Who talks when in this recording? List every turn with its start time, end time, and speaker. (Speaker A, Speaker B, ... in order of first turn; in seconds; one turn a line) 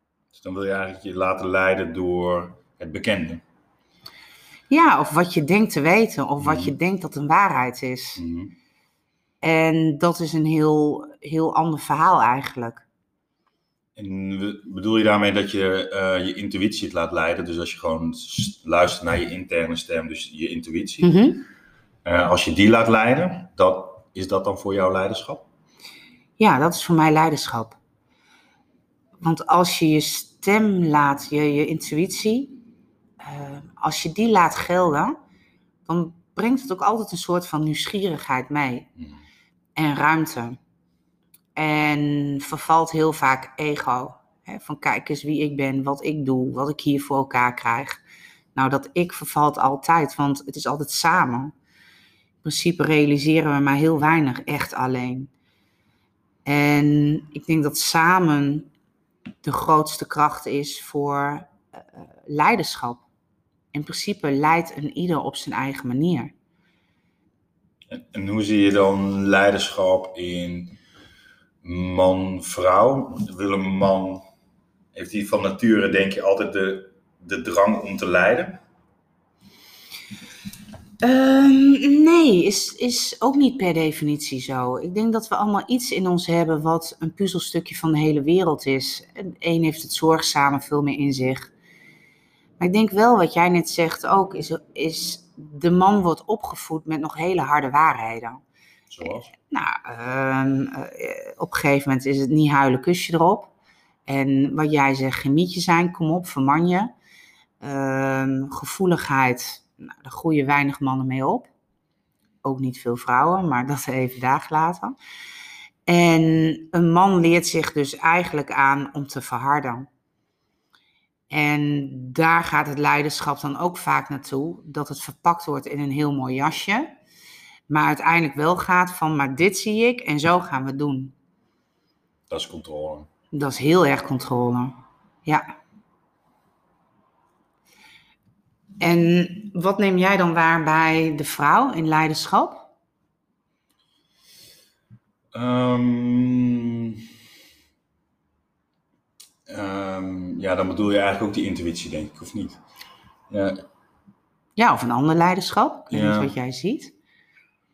Speaker A: 0.3-3.4
Speaker B: 4.7-8.2
Speaker A: 6.4-6.7
Speaker A: 8.2-8.5
Speaker B: 9.4-12.8
Speaker A: 13.9-21.1
Speaker B: 21.0-21.4
Speaker A: 22.0-25.4
Speaker B: 26.4-27.8
Speaker B: 29.2-32.6
Speaker B: 33.2-35.2
Speaker B: 35.9-38.9
Speaker B: 39.8-40.6
Speaker B: 41.5-48.0
Speaker B: 48.5-51.5
Speaker B: 52.4-55.3
Speaker B: 56.4-58.7
Speaker B: 59.4-63.0
Speaker B: 63.7-66.3
Speaker A: 67.9-70.8
Speaker A: 71.6-74.2
Speaker A: 74.9-78.6
Speaker B: 81.0-91.5
Speaker B: 92.6-98.4
Speaker A: 98.9-99.3
Speaker B: 99.3-103.5
Speaker B: 104.1-106.9
Speaker B: 107.6-111.5
Speaker B: 112.4-115.0
Speaker B: 115.9-119.9
Speaker B: 121.3-126.9
Speaker B: 127.7-131.1
Speaker A: 132.3-133.1
Speaker B: 133.3-135.4
Speaker B: 138.8-142.7
Speaker A: 145.3-147.1
Speaker A: 149.5-152.6
Speaker A: 153.3-153.6
Speaker B: 154.6-156.9
Speaker A: 155.9-156.3